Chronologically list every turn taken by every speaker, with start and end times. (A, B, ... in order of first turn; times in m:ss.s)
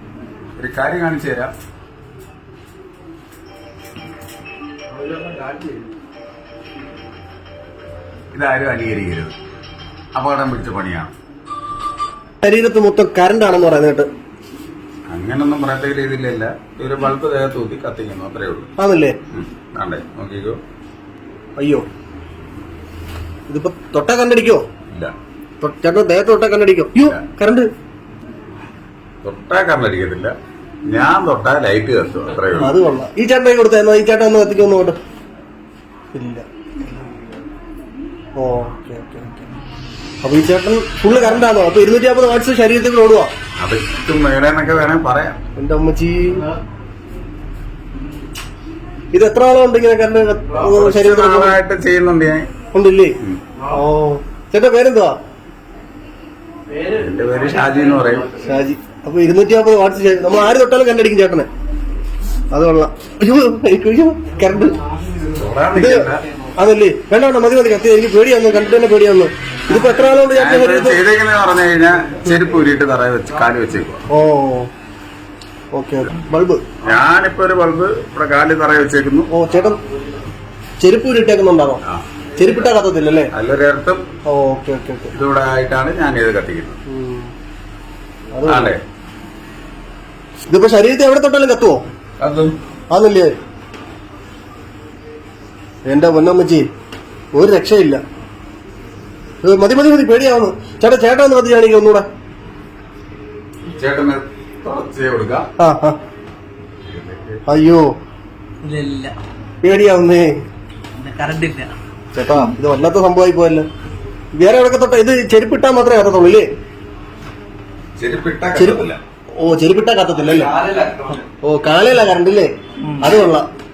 0:00.6-0:01.5 A
0:05.0-0:05.6 B
0:08.3-0:09.4 A
0:10.2-0:11.1 A
0:12.4-0:14.1 C
0:15.1-0:18.7 A
0:18.8-0:19.2 C
0:19.3-0:20.6 A
0:21.6-0:21.8 C
0:23.5-0:24.6 C
0:25.6-0:27.7 C
0:27.0-0:27.2 A
0:29.2-0:30.3 A
0:30.9-0:32.8 A
0:32.6-0:35.0 C
0:36.1-0:36.5 C
0:38.4-0:39.5 C
0:40.2-0:43.3 C
0:43.6-0:45.4 A
0:45.6-0:46.5 C
0:49.1-0:51.6 C
0:50.6-0:52.5 A
0:52.7-0:55.2 C
0:56.8-0:58.3 A
0:58.4-1:01.5 C
1:02.5-1:04.8 C
1:05.2-1:06.2 A
1:05.8-1:11.0 C
1:09.8-1:14.0 A
1:14.1-1:14.7 C
1:15.7-1:16.6 C
1:16.8-1:19.3 A
1:19.3-1:19.8 C
1:20.8-1:21.8 C
1:22.3-1:23.3 C
1:23.3-1:24.0 A
1:24.3-1:25.1 C
1:25.1-1:26.8 A
1:26.9-1:27.3 C
1:28.3-1:28.8 C
1:28.5-1:28.8 A
1:30.5-1:31.8 C
1:32.2-1:32.5 A
1:32.9-1:33.4 C
1:35.9-1:36.7 C
1:37.3-1:38.0 C
1:39.4-1:42.1 C
1:43.7-1:45.4 A
1:45.6-1:46.0 C
1:46.8-1:47.4 A
1:47.5-1:47.9 C
1:48.6-1:49.2 B
1:49.6-1:50.4 C
1:51.0-1:51.7 B
1:52.1-1:53.7 C
1:54.4-1:56.5 C
1:58.0-1:59.0 A
1:58.6-1:58.8 C
1:59.4-2:03.5 C
2:00.6-2:01.2 B